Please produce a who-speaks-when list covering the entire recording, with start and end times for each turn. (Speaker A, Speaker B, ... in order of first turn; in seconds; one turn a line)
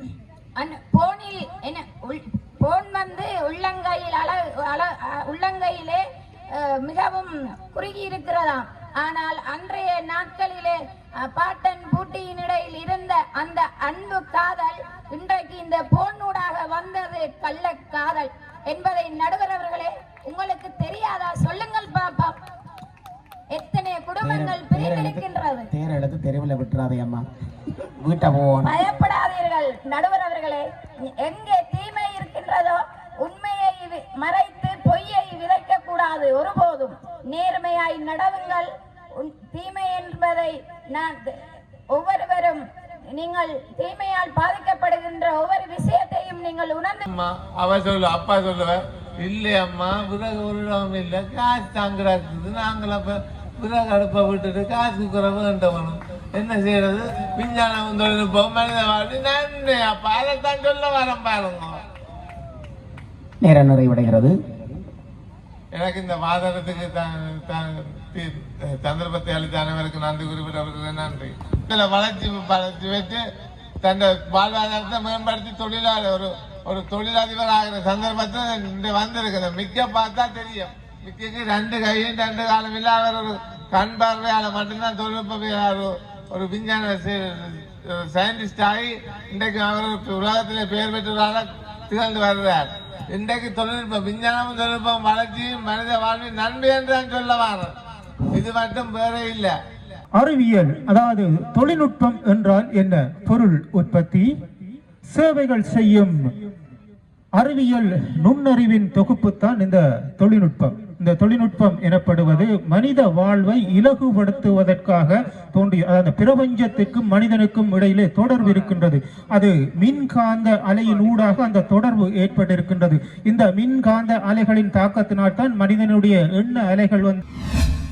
Speaker A: 0.6-22.4
Speaker A: 23.5-25.7
Speaker B: 24.2-27.3
Speaker B: 27.8-28.8
Speaker A: 28.6-47.1
Speaker C: 47.1-61.8
Speaker B: 63.4-64.4
Speaker C: 65.7-73.2
Speaker C: 73.8-97.7
Speaker C: 98.3-99.6
Speaker D: 100.2-104.4
Speaker D: 105.1-106.3
Speaker D: 107.3-127.2